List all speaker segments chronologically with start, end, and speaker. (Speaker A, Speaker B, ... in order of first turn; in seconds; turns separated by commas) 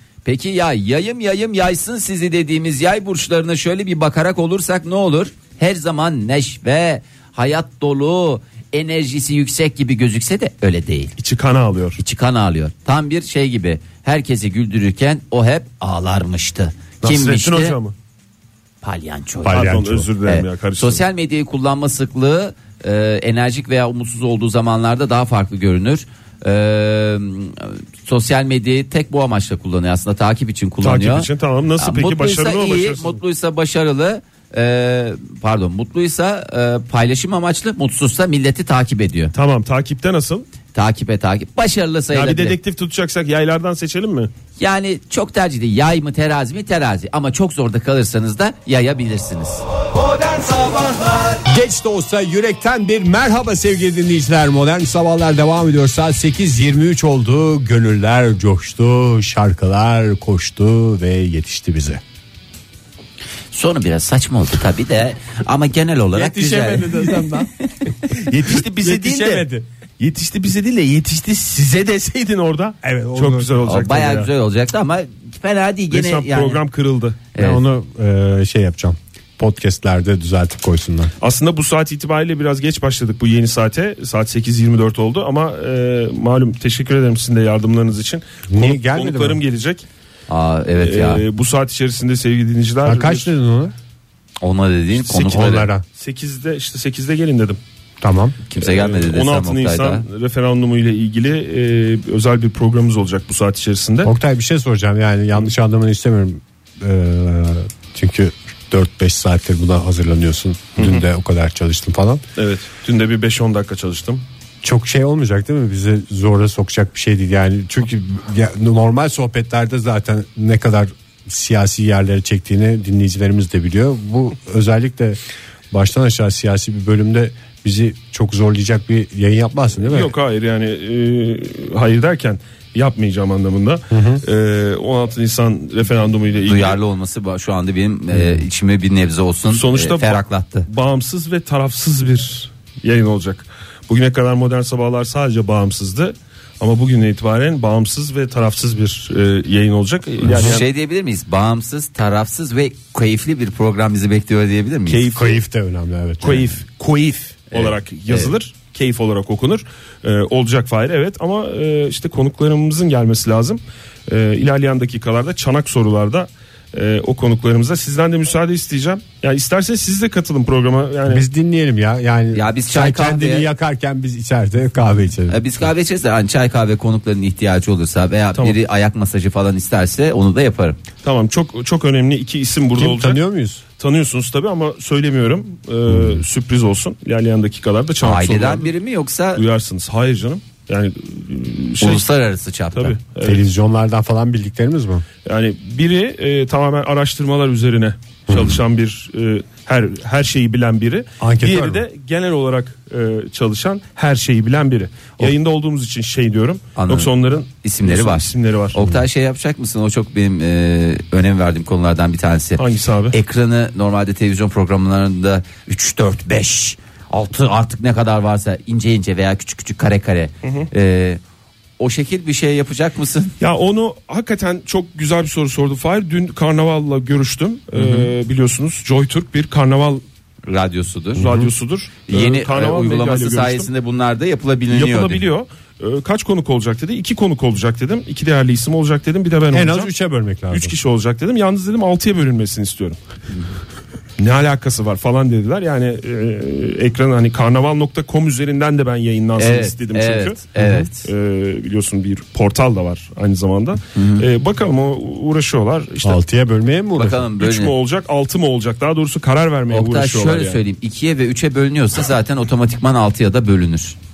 Speaker A: 0.2-11.1, Speaker B: 11.2-12.0, Speaker A: 12.0-17.8, Speaker B: 17.0-17.9, Speaker A: 18.8-39.3, Speaker C: 19.4-20.1, Speaker B: 19.5-21.0, Speaker B: 30.8-33.1, Speaker B: 39.3-40.4, Speaker A: 40.7-42.5, Speaker B: 42.1-44.3, Speaker A: 44.6-49.6, Speaker C: 51.5-62.0, Speaker A: 63.5-67.4, Speaker C: 66.1-67.5, Speaker B: 68.1-69.5, Speaker C: 68.8-69.6, Speaker B: 70.0-74.3, Speaker C: 72.8-73.6, Speaker A: 73.6-76.6, Speaker B: 75.9-77.2, Speaker A: 77.3-77.6, Speaker C: 77.4-81.1, Speaker B: 81.2-89.8, Speaker C: 88.5-89.4, Speaker A: 90.3-91.2, Speaker B: 90.8-93.3, Speaker C: 92.8-93.7, Speaker A: 94.4-95.7, Speaker C: 95.0-95.8, Speaker B: 96.0-97.6, Speaker C: 98.0-98.4, Speaker A: 98.5-100.0, Speaker B: 98.6-104.1, Speaker C: 104.0-112.2, Speaker B: 110.8-111.0, Speaker B: 112.4-114.2, Speaker C: 114.6-125.2, Speaker C: 125.7-130.1, Speaker B: 129.8-136.8, Speaker C: 133.9-134.2, Speaker A: 136.4-140.7, Speaker C: 138.1-138.4, Speaker B: 139.5-150.7, Speaker A: 150.2-155.1, Speaker C: 150.3-150.6, Speaker B: 154.8-155.4, Speaker C: 155.1-156.6, Speaker B: 156.2-171.2, Speaker A: 157.5-158.3, Speaker C: 171.1-175.4, Speaker A: 172.3-173.5, Speaker A: 175.3-180.8, Speaker B: 181.0-183.2, Speaker C: 182.8-183.6, Speaker B: 183.8-188.7, Speaker C: 185.9-186.2, Speaker A: 188.0-189.4, Speaker B: 189.3-192.0, Speaker A: 191.8-193.0, Speaker B: 192.7-193.4, Speaker C: 193.2-195.0, Speaker B: 195.2-208.8, Speaker C: 198.3-198.6, Speaker C: 201.2-201.8, Speaker A: 206.8-221.2, Speaker B: 212.6-213.2, Speaker B: 220.4-220.7, Speaker A: 221.8-223.3, Speaker B: 223.4-230.0, Speaker A: 227.7-228.1, Speaker A: 230.5-231.3, Speaker C: 231.2-231.5, Speaker B: 231.2-233.7, Speaker A: 232.1-235.2, Speaker B: 234.7-239.9, Speaker C: 239.5-240.7, Speaker B: 240.5-243.0, Speaker B: 244.2-256.2, Speaker A: 249.4-251.1, Speaker A: 253.9-254.2, Speaker C: 256.0-257.3, Speaker A: 256.9-257.7, Speaker B: 257.4-260.6, Speaker A: 259.7-263.9